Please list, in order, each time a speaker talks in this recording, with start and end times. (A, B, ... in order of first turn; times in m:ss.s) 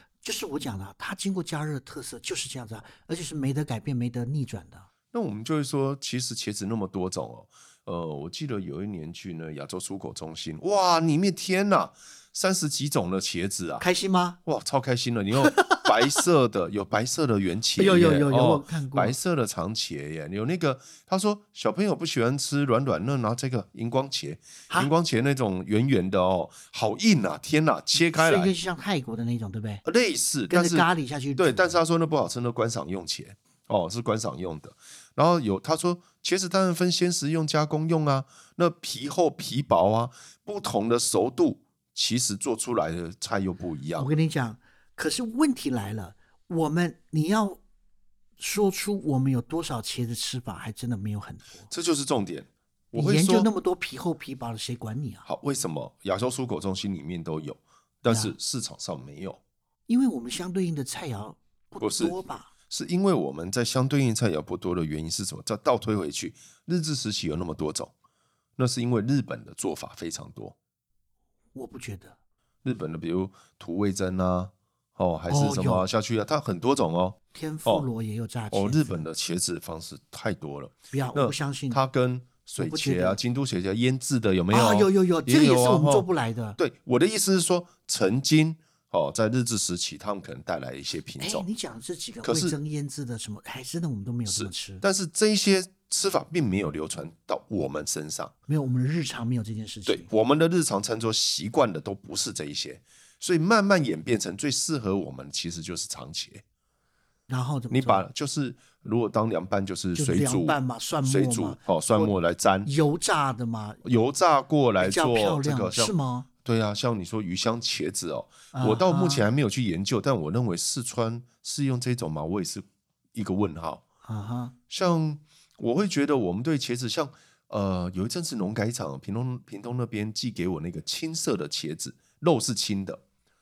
0:00.2-0:04.9 A
0:05.1-0:13.8 B
0:13.8-0:14.4 A
0:14.5-0:28.5 B
0:15.4-0:15.9 A
0:17.8-0:19.2 A
0:28.0-0:29.8 A
0:29.8-0:44.1 B
0:30.5-0:31.8 A
0:44.0-0:47.6 A
0:48.4-0:51.7 A
0:51.7-0:53.5 B
0:52.9-0:55.3 A
0:55.3-0:59.4 B
0:58.1-0:58.4 A
0:59.9-1:02.5 A
1:01.8-1:02.2 B
1:02.7-1:07.9 B
1:08.6-1:10.6 B
1:11.6-1:12.2 A
1:12.6-1:17.9 B
1:15.3-1:15.9 A
1:17.3-1:19.0 A
1:18.5-1:26.1 B
1:20.9-1:21.8 A
1:22.6-1:23.2 A
1:24.5-1:26.6 A
1:26.6-1:31.5 B
1:31.2-1:34.8 A
1:32.2-1:32.6 B
1:34.3-1:38.3 B
1:38.5-1:40.1 A
1:39.9-1:46.4 B
1:47.3-1:48.1 A
1:47.7-1:52.7 B
1:50.0-1:53.9 A
1:53.8-1:55.9 B
1:54.8-1:56.3 A
1:56.4-2:03.8 B
1:58.5-1:59.3 A
2:04.0-2:04.6 A
2:04.7-2:13.0 B